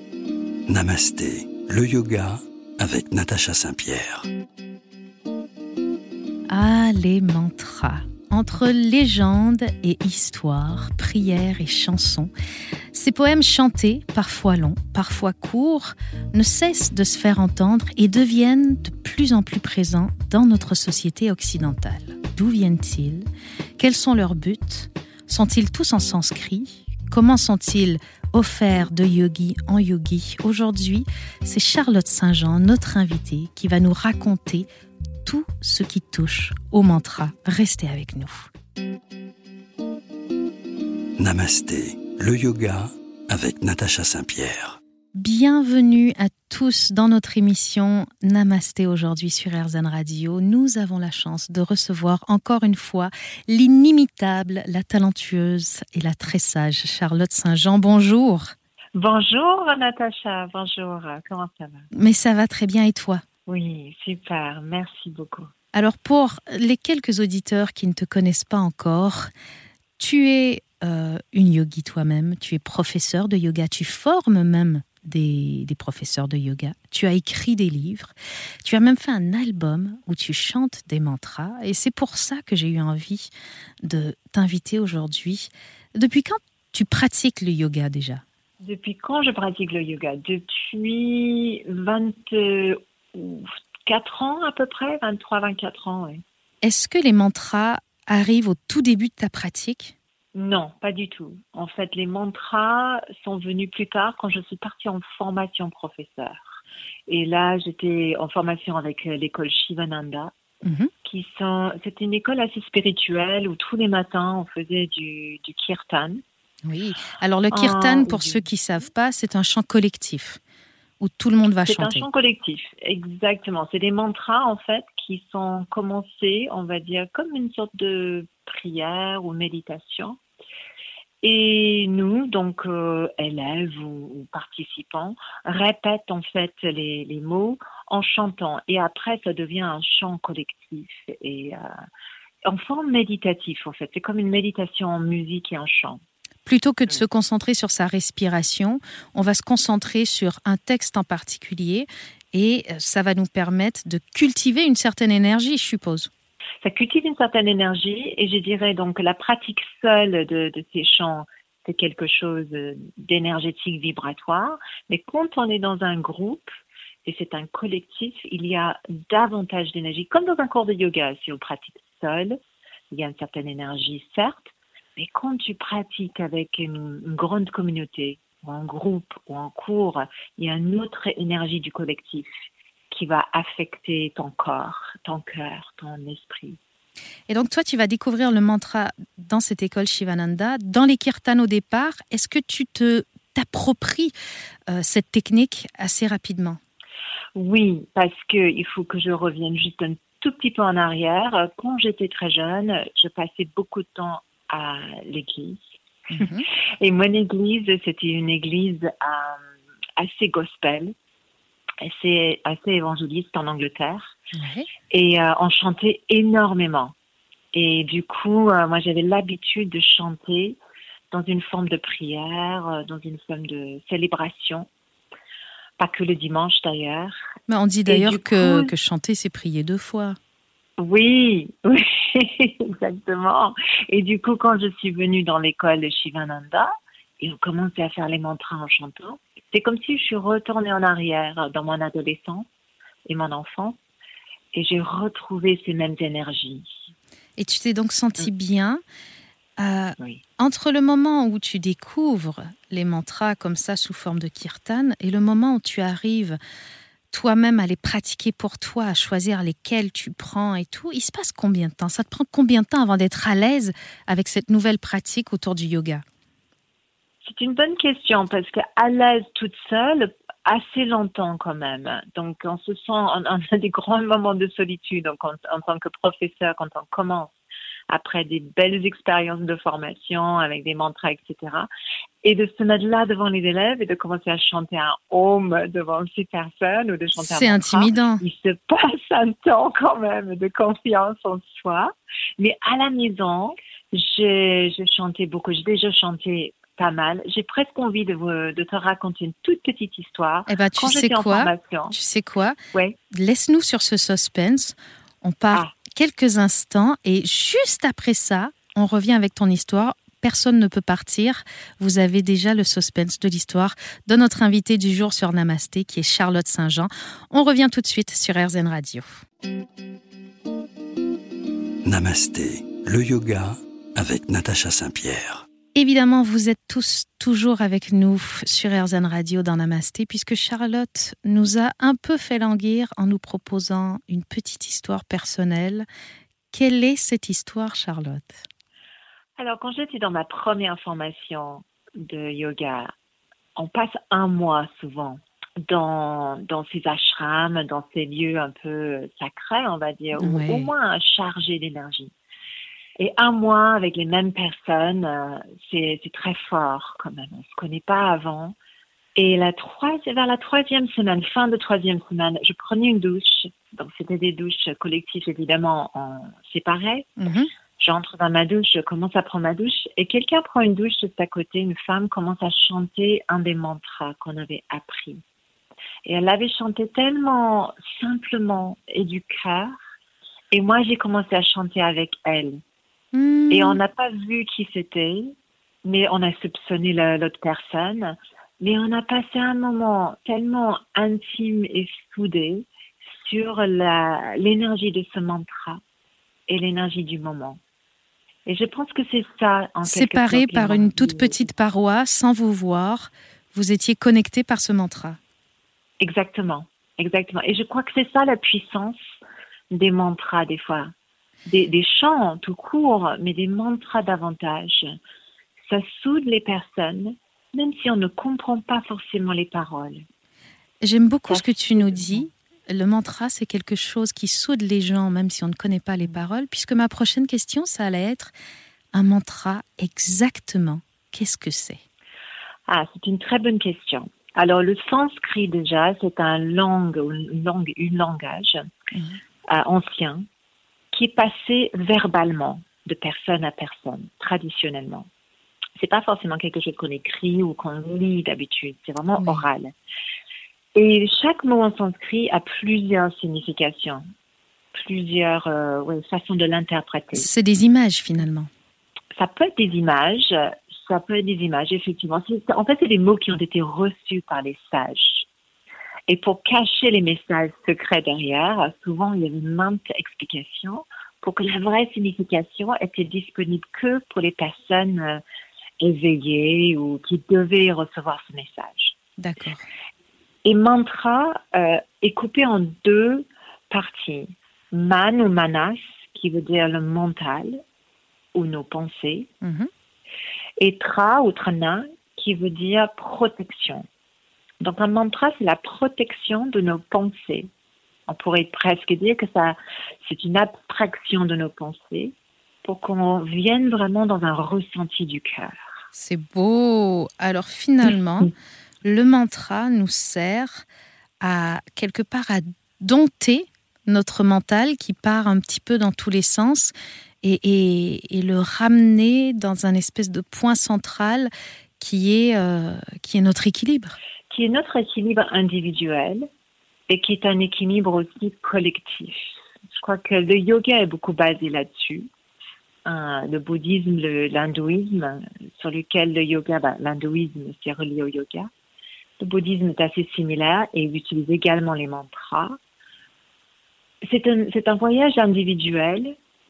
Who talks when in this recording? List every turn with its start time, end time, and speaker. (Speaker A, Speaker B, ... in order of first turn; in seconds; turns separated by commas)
Speaker A: 0.7-4.2, Speaker B: 6.5-12.3, Speaker B: 12.9-23.2, Speaker B: 23.8-34.7, Speaker B: 35.2-38.5, Speaker A: 41.2-44.8, Speaker B: 45.1-58.5, Speaker C: 59.0-61.9, Speaker B: 61.9-63.2, Speaker C: 63.5-65.5, Speaker B: 65.7-69.3, Speaker B: 70.0-78.1, Speaker B: 78.6-83.3, Speaker B: 83.8-88.2, Speaker C: 88.6-96.2, Speaker B: 96.6-99.9, Speaker C: 100.3-110.3, Speaker B: 110.6-110.9, Speaker C: 111.0-116.2, Speaker B: 116.6-120.4, Speaker C: 117.5-118.4, Speaker B: 121.0-122.1, Speaker C: 121.7-130.2, Speaker C: 131.2-141.7, Speaker C: 142.4-146.0, Speaker B: 146.4-156.1, Speaker C: 156.6-166.5, Speaker C: 167.1-172.4, Speaker C: 172.9-182.3, Speaker C: 182.9-186.6, Speaker B: 187.3-194.1, Speaker B: 194.7-196.6, Speaker C: 197.3-205.6, Speaker B: 206.1-206.4, Speaker C: 206.8-209.4, Speaker C: 210.0-210.9, Speaker C: 211.8-214.2, Speaker B: 214.3-214.7, Speaker C: 214.9-216.9, Speaker C: 217.5-220.6, Speaker C: 221.1-224.7, Speaker C: 225.8-227.2, Speaker B: 227.5-230.2, Speaker C: 227.9-228.7, Speaker C: 230.8-242.5, Speaker C: 243.1-243.8, Speaker C: 244.5-246.7, Speaker B: 247.4-248.8, Speaker B: 249.6-256.4, Speaker B: 257.1-266.0, Speaker C: 267.2-277.3, Speaker C: 277.9-281.7, Speaker C: 282.2-301.9, Speaker B: 287.2-288.2, Speaker B: 300.5-302.6, Speaker B: 303.1-319.2, Speaker A: 321.9-325.4, Speaker B: 325.7-335.9, Speaker B: 336.5-338.4, Speaker C: 339.4-342.9, Speaker C: 343.6-352.1, Speaker B: 350.2-350.7, Speaker C: 353.0-358.6, Speaker C: 359.1-367.2, Speaker B: 367.2-367.5, Speaker C: 367.8-375.2, Speaker C: 376.0-379.7, Speaker C: 380.5-382.6, Speaker B: 383.1-383.8, Speaker C: 383.5-385.3, Speaker C: 385.8-392.6, Speaker C: 393.2-395.8, Speaker C: 396.5-397.6, Speaker C: 398.4-401.5, Speaker B: 399.8-405.2, Speaker C: 406.0-409.1, Speaker C: 409.7-410.9, Speaker C: 411.5-414.9, Speaker C: 415.7-420.0, Speaker B: 420.8-428.3, Speaker C: 421.3-422.3, Speaker B: 428.9-431.8, Speaker C: 432.7-438.7, Speaker B: 438.9-439.2, Speaker C: 439.5-440.2, Speaker C: 440.9-445.1, Speaker C: 445.8-449.7, Speaker B: 449.2-449.4, Speaker C: 450.7-454.0, Speaker C: 454.7-457.3, Speaker B: 457.1-458.5, Speaker C: 459.1-465.2, Speaker C: 466.1-475.2, Speaker C: 475.8-478.9, Speaker B: 479.2-479.6, Speaker C: 480.4-487.6, Speaker C: 488.3-489.3, Speaker B: 489.4-489.7, Speaker C: 490.6-493.9, Speaker C: 494.6-497.5, Speaker C: 498.1-505.6, Speaker B: 505.9-508.3, Speaker B: 508.8-510.6, Speaker B: 511.2-524.0, Speaker C: 524.3-526.3, Speaker C: 526.9-532.1, Speaker C: 532.9-538.5, Speaker C: 539.2-542.6, Speaker C: 544.0-546.1